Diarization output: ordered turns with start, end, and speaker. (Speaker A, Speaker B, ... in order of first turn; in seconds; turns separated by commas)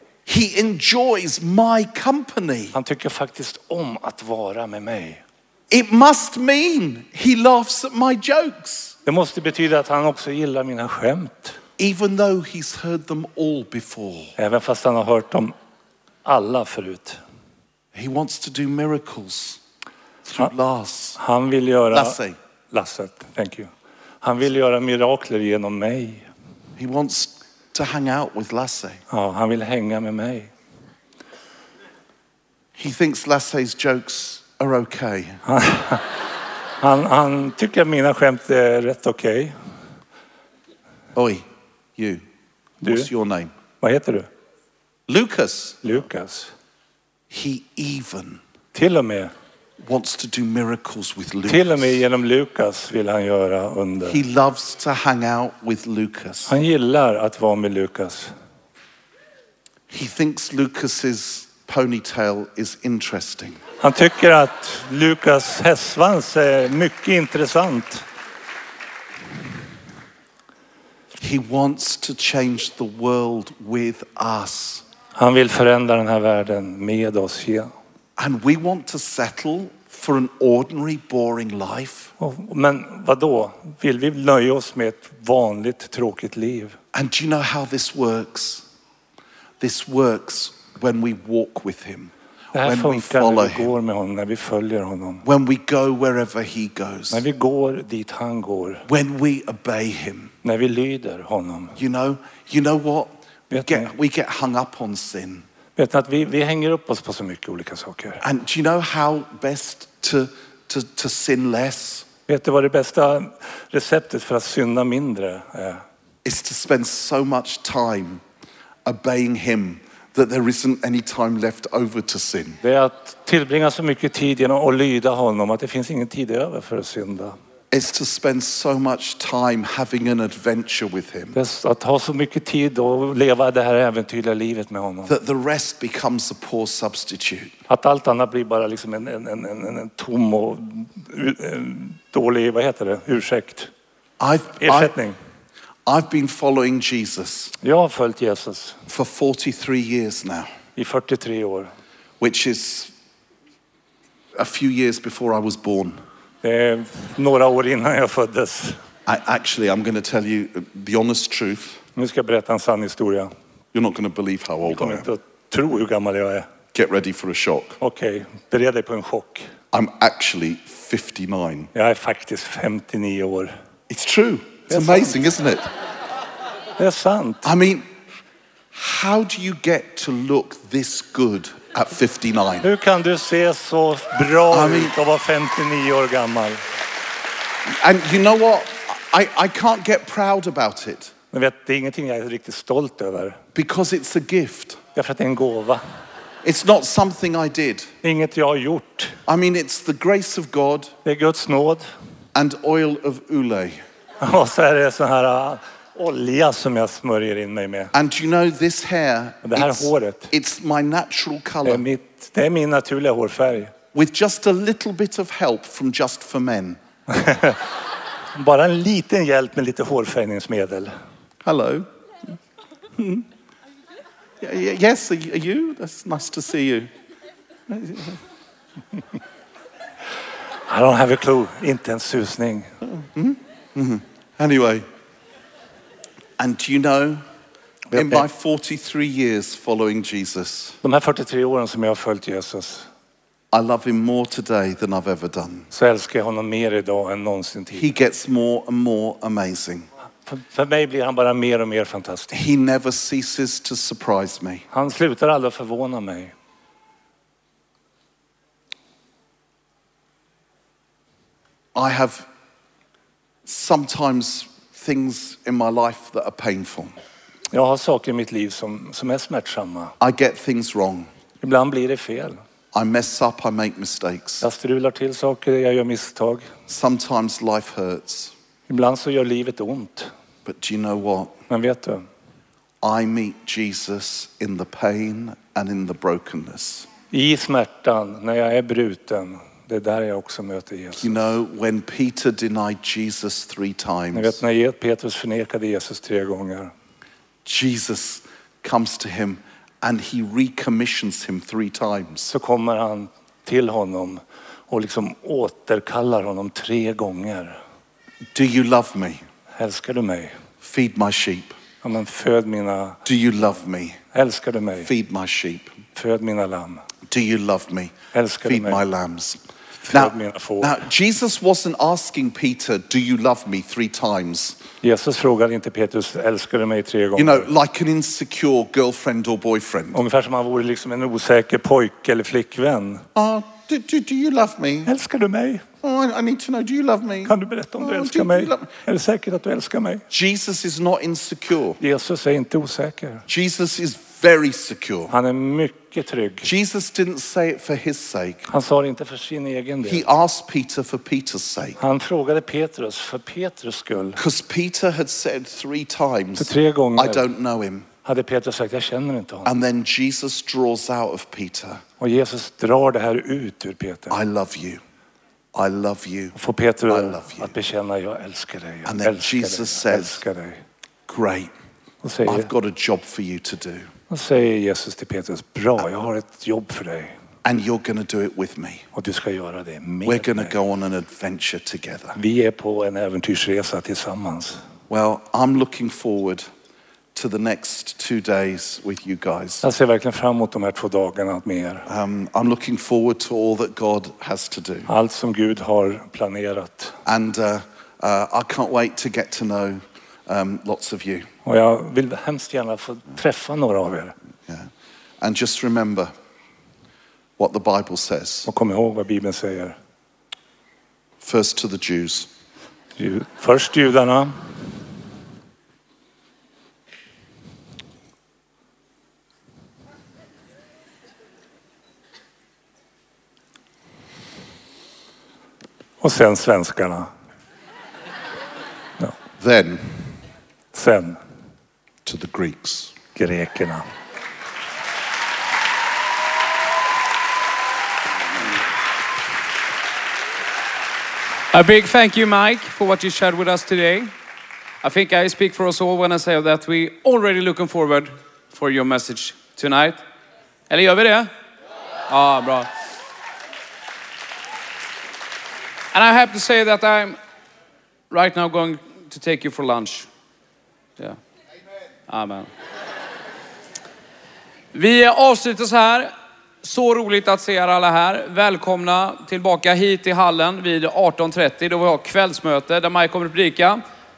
Speaker A: 0.3-2.8, Speaker B: 2.7-5.2, Speaker A: 5.7-9.0, Speaker B: 9.1-11.6, Speaker A: 11.8-14.3, Speaker B: 14.4-15.6, Speaker B: 16.2-17.2, Speaker A: 17.9-19.6, Speaker A: 20.2-21.2, Speaker B: 21.2-22.2, Speaker A: 21.9-22.4, Speaker B: 22.7-23.7, Speaker B: 24.2-26.3, Speaker A: 26.8-29.0, Speaker B: 29.1-30.5, Speaker A: 32.8-35.4, Speaker B: 35.5-36.1, Speaker B: 36.8-39.5, Speaker A: 41.1-42.2, Speaker B: 42.8-43.1, Speaker A: 42.8-43.5, Speaker B: 43.8-44.3, Speaker A: 45.1-45.8, Speaker B: 45.8-46.5, Speaker A: 47.3-48.4, Speaker B: 48.7-49.3, Speaker A: 49.8-52.0, Speaker B: 51.5-54.2, Speaker A: 54.1-56.5, Speaker B: 56.5-58.3, Speaker A: 59.9-63.6, Speaker B: 63.8-68.1, Speaker A: 71.2-74.8, Speaker B: 75.2-77.7, Speaker A: 78.2-82.1, Speaker B: 82.2-86.8, Speaker A: 86.9-88.7, Speaker A: 89.6-93.7, Speaker B: 92.5-95.2, Speaker A: 95.2-97.2, Speaker B: 97.1-98.9, Speaker A: 98.9-100.3, Speaker B: 100.4-101.8, Speaker A: 101.8-105.5, Speaker B: 103.5-103.9, Speaker B: 105.8-108.2, Speaker A: 108.2-112.1, Speaker B: 112.3-115.8, Speaker A: 116.2-118.2, Speaker A: 118.8-122.6, Speaker B: 122.6-127.4, Speaker A: 127.7-131.4, Speaker B: 131.3-135.1, Speaker A: 135.1-137.5, Speaker B: 137.7-143.7, Speaker A: 144.2-145.0, Speaker B: 144.6-145.2, Speaker A: 145.9-147.5, Speaker B: 147.6-148.8, Speaker A: 148.9-150.5, Speaker B: 150.8-151.7, Speaker A: 152.2-152.9, Speaker A: 154.4-156.0, Speaker B: 156.4-158.8, Speaker A: 159.1-161.8, Speaker B: 162.0-163.3, Speaker A: 163.7-165.1, Speaker B: 164.7-166.5, Speaker A: 166.7-167.8, Speaker B: 167.8-169.5, Speaker A: 169.7-171.7, Speaker B: 171.7-173.5, Speaker A: 173.9-175.7, Speaker B: 174.7-175.2, Speaker B: 176.8-177.5, Speaker A: 177.4-177.9, Speaker A: 178.7-182.7, Speaker B: 182.6-186.6, Speaker A: 184.5-184.9, Speaker A: 187.7-191.1, Speaker B: 191.3-193.4, Speaker A: 193.6-194.8, Speaker B: 194.9-195.8, Speaker A: 196.4-197.9, Speaker B: 198.0-199.2, Speaker A: 199.3-200.9, Speaker B: 201.1-201.9, Speaker A: 202.3-203.8, Speaker B: 204.2-207.9, Speaker A: 207.9-211.8, Speaker B: 209.4-210.3, Speaker B: 211.6-213.7, Speaker A: 213.9-216.8, Speaker B: 217.1-217.8, Speaker B: 218.3-220.9, Speaker A: 221.4-222.4, Speaker A: 223.0-223.3, Speaker A: 224.4-226.9, Speaker A: 227.7-228.1, Speaker B: 230.7-232.7, Speaker A: 233.1-234.8, Speaker A: 236.4-237.2, Speaker B: 237.9-238.3, Speaker A: 237.9-240.8, Speaker B: 240.8-242.9, Speaker A: 243.5-245.7, Speaker B: 245.7-248.0, Speaker A: 247.7-249.9, Speaker B: 250.3-252.4, Speaker A: 252.3-254.7, Speaker B: 254.7-256.3, Speaker A: 261.8-262.3, Speaker A: 263.5-266.9, Speaker B: 267.5-269.9, Speaker A: 270.0-271.1, Speaker B: 271.4-272.4, Speaker A: 272.7-274.4, Speaker B: 274.4-276.5, Speaker A: 276.7-278.3, Speaker B: 278.7-280.1, Speaker A: 280.4-281.3, Speaker B: 281.5-282.1, Speaker A: 282.8-286.9, Speaker B: 287.1-291.4, Speaker A: 291.0-294.4, Speaker B: 294.1-296.7, Speaker A: 297.4-302.3, Speaker B: 302.3-307.6, Speaker A: 308.3-309.2, Speaker B: 309.6-310.4, Speaker A: 310.6-311.6, Speaker B: 311.8-313.0, Speaker A: 313.1-314.0, Speaker B: 314.1-314.9, Speaker A: 314.8-315.8, Speaker B: 315.9-316.9, Speaker A: 317.1-324.6, Speaker B: 318.1-318.8, Speaker B: 319.9-320.8, Speaker B: 324.8-327.5, Speaker A: 327.2-330.0, Speaker B: 329.9-333.1, Speaker A: 333.1-334.9, Speaker B: 334.9-335.7, Speaker A: 335.8-338.7, Speaker B: 337.2-340.1, Speaker A: 340.1-341.8, Speaker B: 341.8-343.3, Speaker A: 343.3-345.1, Speaker B: 345.1-346.5, Speaker A: 346.4-348.5, Speaker B: 348.5-350.1, Speaker A: 349.9-351.8, Speaker B: 351.8-354.2, Speaker A: 354.2-357.9, Speaker B: 356.4-357.3, Speaker B: 358.1-359.5, Speaker A: 359.4-361.8, Speaker B: 362.0-364.2, Speaker A: 364.1-364.8, Speaker A: 365.5-366.4, Speaker B: 366.4-370.6, Speaker A: 366.9-367.5, Speaker A: 368.9-370.2, Speaker A: 371.1-371.5, Speaker B: 372.0-372.5, Speaker A: 372.2-373.9, Speaker B: 374.1-377.1, Speaker A: 377.4-378.9, Speaker B: 378.9-380.6, Speaker A: 380.1-382.2, Speaker B: 382.2-384.6, Speaker A: 384.9-386.5, Speaker A: 387.1-389.6, Speaker B: 389.6-391.9, Speaker A: 391.9-394.9, Speaker B: 394.9-397.0, Speaker A: 397.1-401.3, Speaker B: 401.4-404.1, Speaker A: 404.5-406.1, Speaker A: 407.4-408.5, Speaker B: 408.5-409.8, Speaker A: 411.2-412.3, Speaker B: 413.0-414.5, Speaker B: 426.0-427.1, Speaker A: 429.4-430.1, Speaker B: 430.7-431.2, Speaker A: 432.1-432.9, Speaker B: 433.1-433.9, Speaker C: 441.5-444.1, Speaker C: 444.8-450.0, Speaker C: 450.7-451.3, Speaker C: 452.1-452.7, Speaker C: 455.9-457.2, Speaker C: 458.1-460.1, Speaker C: 462.1-462.5, Speaker C: 464.7-473.8